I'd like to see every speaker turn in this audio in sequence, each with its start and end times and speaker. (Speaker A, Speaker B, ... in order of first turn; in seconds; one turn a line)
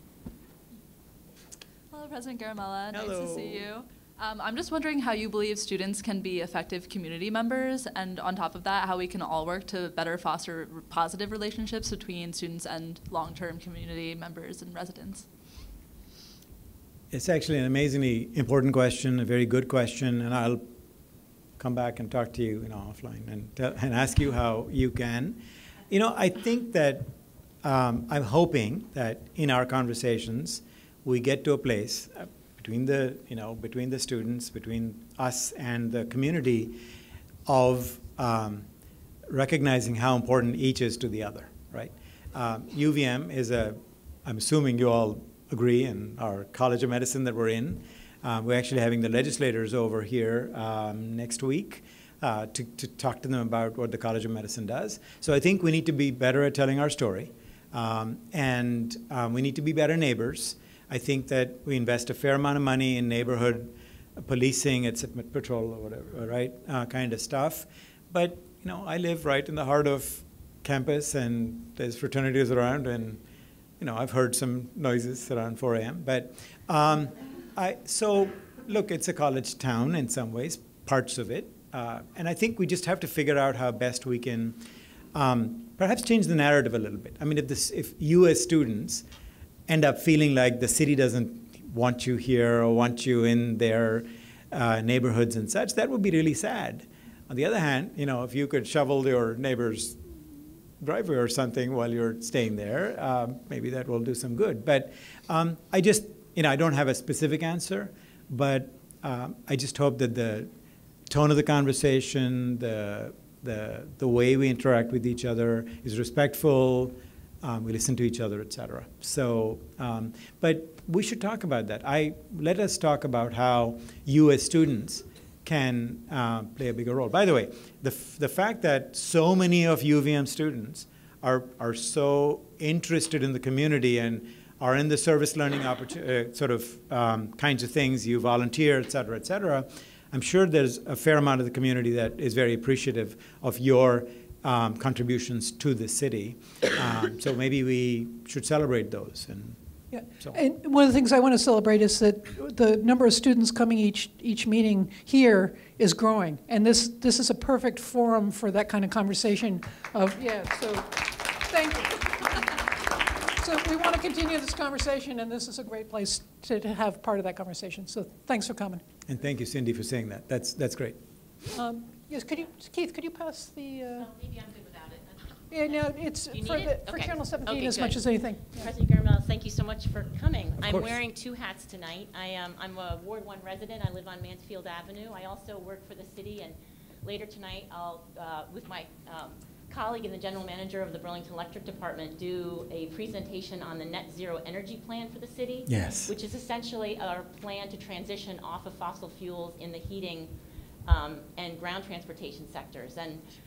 Speaker A: 1.9-15.3
Speaker B: 2.9-3.7
Speaker B: 17.1-20.7
Speaker B: 21.6-27.1
Speaker B: 27.6-36.8
Speaker B: 37.5-38.6
Speaker B: 39.3-73.2
Speaker B: 73.8-84.6
Speaker B: 85.1-89.0
Speaker B: 89.7-100.0
Speaker B: 100.8-110.5
Speaker B: 111.1-149.6
Speaker C: 149.9-162.4
Speaker C: 163.3-168.8
Speaker B: 169.1-171.0
Speaker C: 171.5-174.1
Speaker D: 174.0-175.1
Speaker C: 175.5-178.7
Speaker D: 176.3-200.3
Speaker B: 180.6-180.9
Speaker B: 195.7-196.1
Speaker D: 200.8-203.2